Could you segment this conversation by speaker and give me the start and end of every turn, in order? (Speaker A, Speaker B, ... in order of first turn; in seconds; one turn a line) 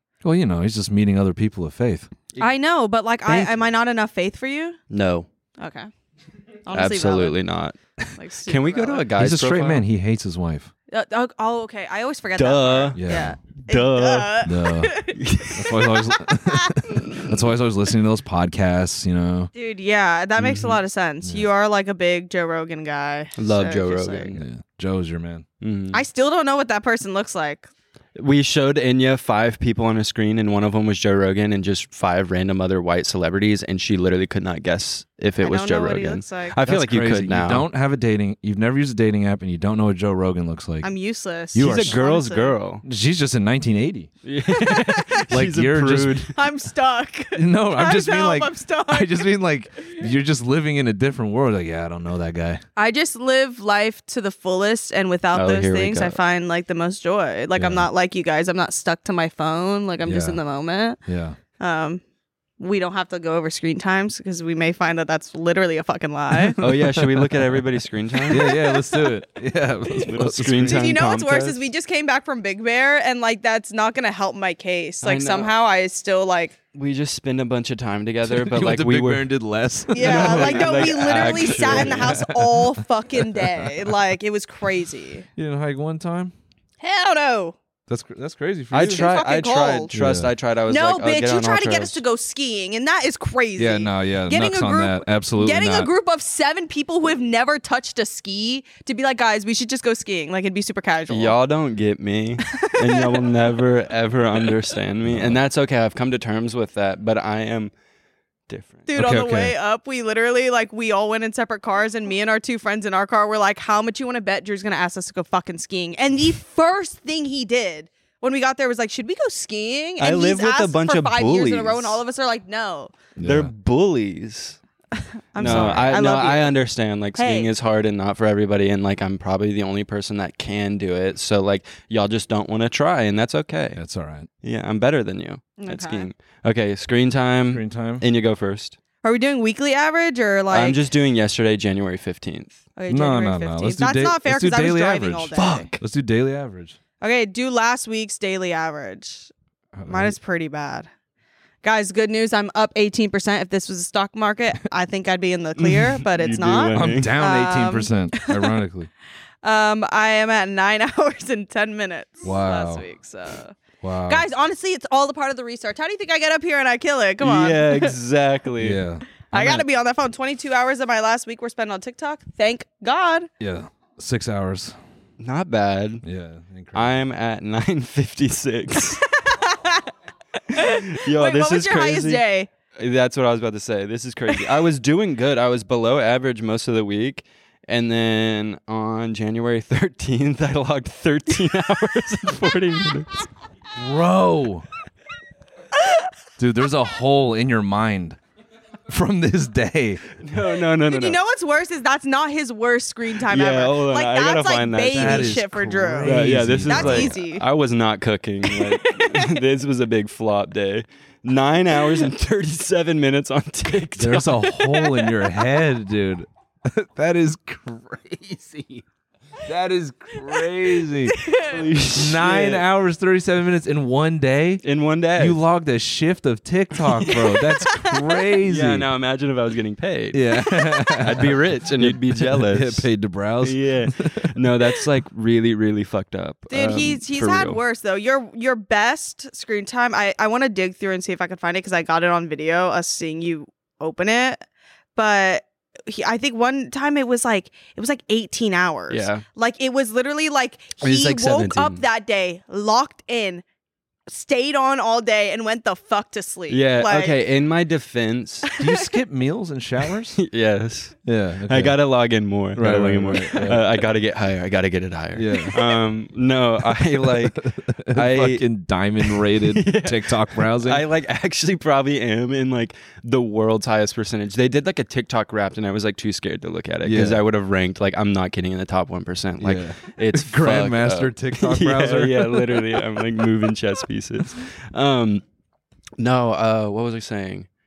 Speaker A: 0.2-2.1
Speaker B: 2.4-4.8
Speaker C: 3.3-3.6
Speaker C: 4.9-5.3
Speaker B: 5.6-5.9
Speaker B: 6.7-7.4
Speaker C: 6.7-7.8
Speaker B: 8.2-9.1
Speaker C: 8.5-9.8
Speaker A: 9.2-10.7
Speaker B: 10.9-15.2
Speaker C: 12.4-13.0
Speaker A: 12.9-13.4
Speaker C: 13.7-14.4
Speaker A: 14.4-14.9
Speaker C: 15.2-15.8
Speaker A: 15.5-19.5
Speaker B: 15.7-17.0
Speaker B: 19.6-24.3
Speaker C: 20.4-20.8
Speaker C: 23.4-24.4
Speaker A: 24.4-25.4
Speaker C: 25.6-26.0
Speaker B: 25.9-27.7
Speaker C: 28.2-37.7
Speaker B: 35.4-36.6
Speaker A: 36.6-40.9
Speaker B: 40.8-42.6
Speaker A: 41.5-42.0
Speaker C: 41.6-42.8
Speaker A: 42.8-44.1
Speaker C: 44.2-46.4
Speaker B: 44.6-45.3
Speaker A: 45.3-46.3
Speaker B: 46.3-49.4
Speaker A: 47.4-52.6
Speaker B: 52.8-61.0
Speaker C: 55.3-56.2
Speaker A: 57.6-57.9
Speaker A: 60.0-60.4
Speaker A: 61.1-61.4
Speaker B: 61.6-62.0
Speaker B: 62.6-66.6
Speaker A: 66.4-67.5
Speaker C: 66.6-68.5
Speaker B: 68.3-69.2
Speaker A: 68.3-70.9
Speaker C: 70.0-71.6
Speaker B: 70.7-76.6
Speaker C: 75.0-75.5
Speaker C: 76.7-79.3
Speaker A: 78.2-83.7
Speaker C: 79.9-82.2
Speaker B: 79.9-85.3
Speaker A: 85.4-86.3
Speaker B: 86.8-87.6
Speaker A: 87.9-89.1
Speaker C: 88.7-92.0
Speaker B: 88.8-89.9
Speaker A: 89.9-90.3
Speaker B: 90.7-101.4
Speaker A: 93.6-95.9
Speaker C: 101.1-107.7
Speaker B: 102.5-103.3
Speaker C: 108.5-108.9
Speaker B: 108.9-122.9
Speaker A: 108.9-109.5
Speaker C: 120.0-122.0
Speaker A: 123.2-123.5
Speaker C: 123.2-124.6
Speaker B: 125.3-126.6
Speaker C: 125.4-133.8
Speaker A: 125.4-125.9
Speaker B: 127.2-127.5
Speaker A: 133.8-134.3
Speaker C: 134.4-138.8
Speaker B: 135.6-136.1
Speaker A: 137.5-138.0
Speaker B: 139.0-140.8
Speaker C: 140.5-142.6
Speaker B: 142.8-145.7
Speaker A: 142.9-146.8
Speaker C: 145.3-145.8
Speaker B: 147.0-149.3
Speaker A: 149.8-150.2
Speaker B: 149.9-150.9
Speaker B: 151.6-158.6
Speaker C: 155.6-157.1
Speaker A: 156.7-158.9
Speaker B: 159.4-163.6
Speaker A: 162.2-162.8
Speaker A: 163.8-164.2
Speaker B: 164.1-167.9
Speaker C: 167.2-168.8
Speaker A: 168.6-169.7
Speaker B: 169.3-173.3
Speaker A: 173.4-174.8
Speaker C: 175.2-176.0
Speaker A: 176.0-177.0
Speaker C: 176.7-179.1
Speaker B: 179.1-179.9
Speaker C: 180.5-182.2
Speaker B: 180.5-182.5
Speaker C: 182.8-193.2
Speaker A: 193.8-194.7
Speaker A: 196.4-198.2
Speaker A: 198.9-200.0
Speaker C: 200.1-201.2
Speaker B: 200.9-207.5
Speaker C: 203.3-205.4
Speaker A: 204.9-207.1
Speaker C: 206.0-214.5
Speaker B: 208.5-209.4
Speaker A: 214.0-218.8
Speaker B: 214.6-215.4
Speaker A: 219.4-221.2
Speaker B: 221.2-221.6
Speaker C: 221.5-222.7
Speaker A: 221.9-224.6
Speaker C: 224.6-225.4
Speaker A: 225.2-228.9
Speaker B: 227.1-228.2
Speaker C: 228.4-230.2
Speaker A: 230.1-234.2
Speaker B: 230.5-231.0
Speaker C: 231.0-232.9
Speaker C: 233.4-237.6
Speaker B: 236.5-244.4
Speaker B: 244.9-253.4
Speaker C: 248.9-249.2
Speaker C: 250.8-251.8
Speaker B: 254.1-257.2
Speaker C: 256.5-258.5
Speaker A: 258.6-260.2
Speaker C: 260.1-268.4
Speaker A: 261.1-261.8
Speaker A: 262.5-263.7
Speaker A: 265.1-265.6
Speaker A: 267.0-270.8
Speaker C: 269.0-285.2
Speaker A: 276.8-277.2
Speaker A: 279.4-282.6
Speaker C: 286.0-287.5